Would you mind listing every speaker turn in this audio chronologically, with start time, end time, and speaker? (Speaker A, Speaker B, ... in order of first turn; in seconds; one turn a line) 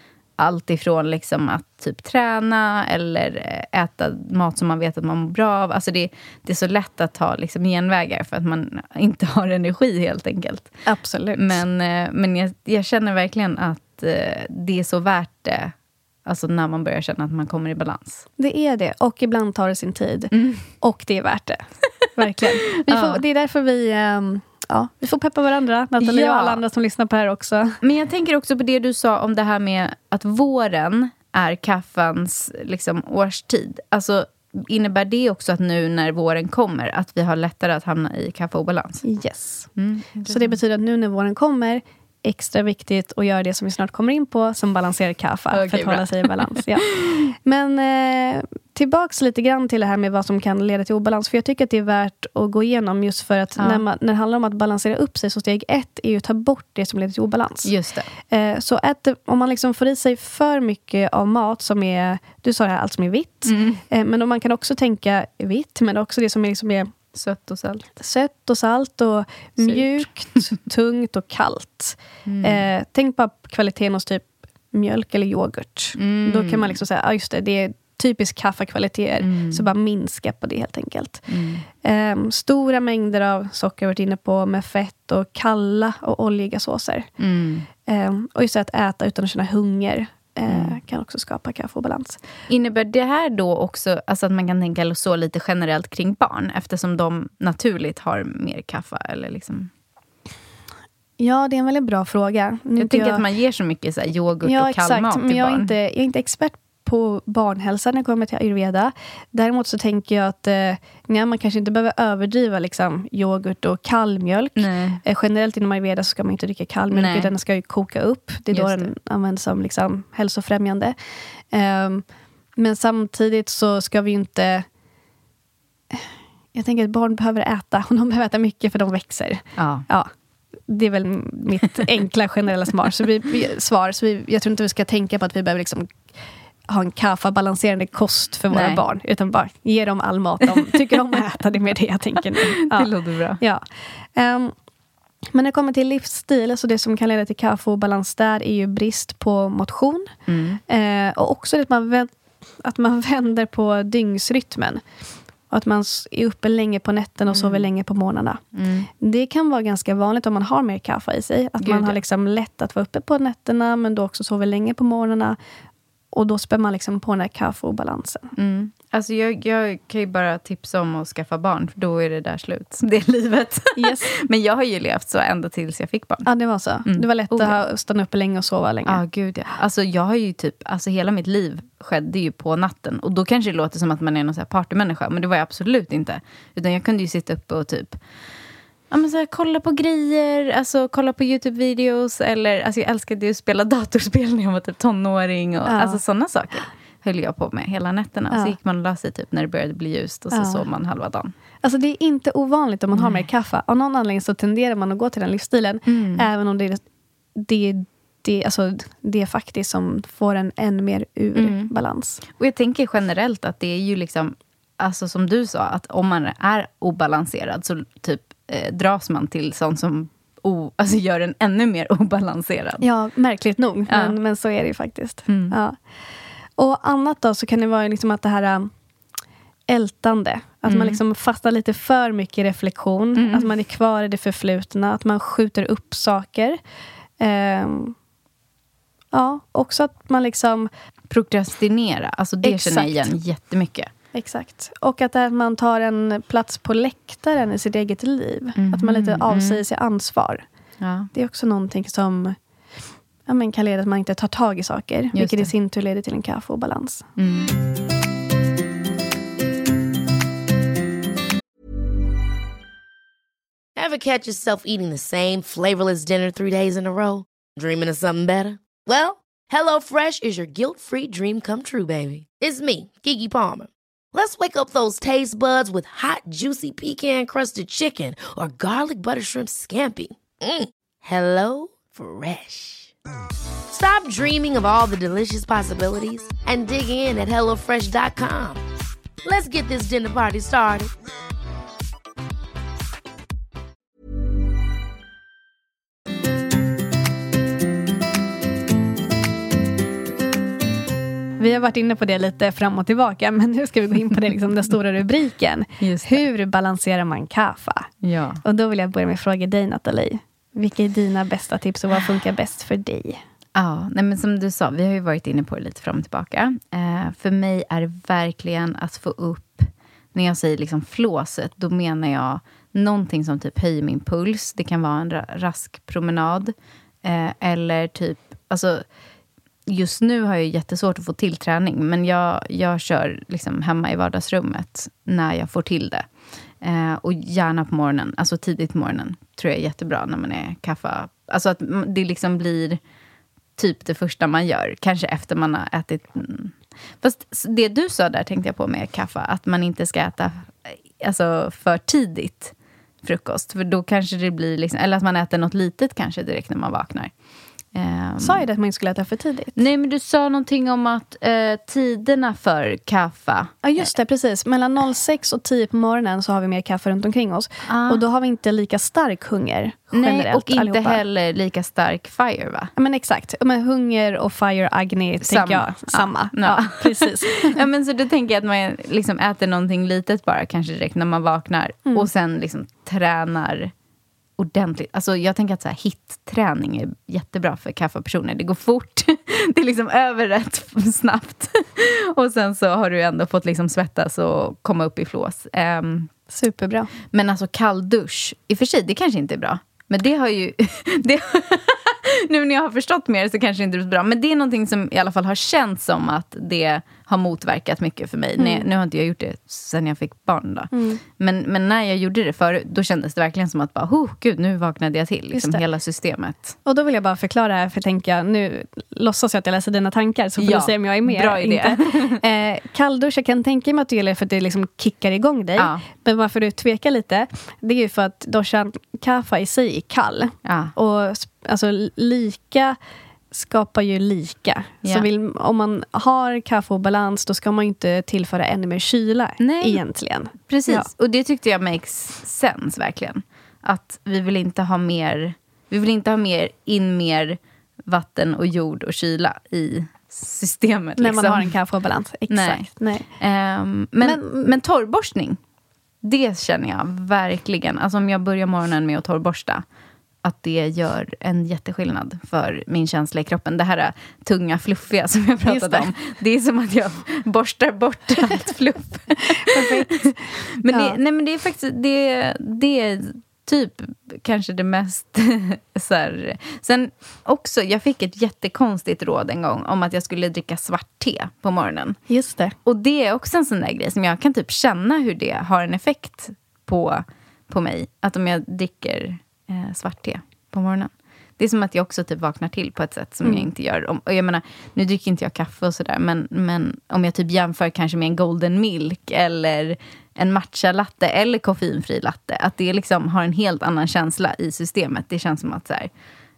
Speaker A: 0.4-10.7
Speaker B: 10.8-11.6
Speaker A: 11.3-15.7
Speaker A: 16.2-18.2
Speaker B: 18.4-27.8
Speaker A: 20.3-20.6
Speaker A: 22.9-23.2
Speaker A: 26.0-26.6
Speaker A: 27.8-39.0
Speaker B: 39.0-39.7
Speaker A: 39.8-40.6
Speaker B: 40.3-57.7
Speaker A: 45.5-47.3
Speaker A: 53.5-53.8
Speaker A: 57.6-58.1
Speaker B: 58.3-66.9
Speaker A: 63.4-63.8
Speaker A: 67.1-67.8
Speaker B: 68.0-81.3
Speaker A: 69.6-70.1
Speaker A: 72.2-72.6
Speaker A: 76.0-76.8
Speaker A: 79.2-79.6
Speaker A: 81.3-81.6
Speaker B: 81.8-87.1
Speaker A: 87.2-87.7
Speaker B: 87.8-92.2
Speaker A: 90.5-90.8
Speaker A: 92.5-99.7
Speaker B: 101.2-103.2
Speaker A: 102.8-105.7
Speaker B: 104.4-121.0
Speaker A: 114.5-115.0
Speaker A: 116.9-117.3
Speaker A: 118.5-118.9
Speaker B: 121.5-124.6
Speaker B: 125.9-130.1
Speaker A: 129.6-129.8
Speaker B: 130.7-136.0
Speaker B: 136.7-144.5
Speaker A: 138.5-138.8
Speaker A: 140.7-141.1
Speaker A: 142.6-143.4
Speaker B: 145.3-150.1
Speaker A: 150.3-150.6
Speaker B: 150.7-154.8
Speaker B: 155.5-158.4
Speaker A: 157.3-157.7
Speaker A: 158.5-158.9
Speaker B: 159.0-165.4
Speaker A: 161.6-162.0
Speaker B: 166.1-168.3
Speaker A: 168.3-176.3
Speaker B: 173.7-174.1
Speaker B: 176.2-179.0
Speaker A: 176.8-177.6
Speaker A: 178.8-188.0
Speaker A: 188.9-201.3
Speaker B: 195.7-196.0
Speaker B: 198.3-198.6
Speaker B: 200.3-200.6
Speaker B: 201.6-206.8
Speaker A: 202.9-203.2
Speaker A: 205.9-206.2
Speaker B: 207.3-212.2
Speaker A: 211.3-211.7
Speaker A: 212.3-222.8
Speaker B: 222.8-225.8
Speaker A: 223.9-224.2
Speaker A: 225.3-225.6
Speaker B: 226.6-228.7
Speaker B: 229.7-236.6
Speaker A: 230.7-231.0
Speaker A: 233.2-233.5
Speaker B: 237.2-237.9
Speaker B: 239.1-240.7
Speaker A: 241.1-243.9
Speaker B: 242.4-243.1
Speaker B: 244.1-250.4
Speaker A: 248.6-249.6
Speaker A: 250.8-251.1
Speaker B: 251.1-252.3
Speaker B: 253.2-257.1
Speaker A: 255.1-255.5
Speaker A: 257.1-257.5
Speaker C: 263.8-282.9
Speaker C: 283.7-288.6
Speaker C: 289.2-290.9
Speaker B: 301.4-307.9
Speaker A: 305.8-306.2
Speaker A: 308.0-308.4
Speaker B: 308.4-313.2
Speaker A: 313.5-328.8
Speaker A: 329.7-336.1
Speaker A: 336.6-342.8
Speaker A: 343.6-357.1
Speaker A: 357.7-358.4
Speaker B: 358.2-359.6
Speaker A: 359.6-363.5
Speaker B: 363.6-371.0
Speaker A: 367.7-368.0
Speaker A: 369.9-372.7
Speaker B: 372.8-377.6
Speaker A: 375.2-383.7
Speaker A: 384.4-396.1
Speaker B: 396.3-396.9
Speaker A: 397.1-416.6
Speaker B: 408.4-408.7
Speaker B: 410.7-411.0
Speaker B: 415.3-415.6
Speaker B: 416.6-432.8
Speaker A: 420.4-422.2
Speaker A: 425.6-425.8
Speaker A: 430.4-430.7
Speaker B: 433.3-440.9
Speaker A: 439.4-439.8
Speaker A: 440.4-451.5
Speaker B: 451.0-453.1
Speaker A: 452.3-455.4
Speaker B: 454.0-454.5
Speaker A: 456.0-459.6
Speaker A: 460.2-482.0
Speaker B: 465.4-465.9
Speaker B: 469.1-471.0
Speaker B: 482.1-482.5
Speaker A: 482.6-505.9
Speaker B: 493.2-493.5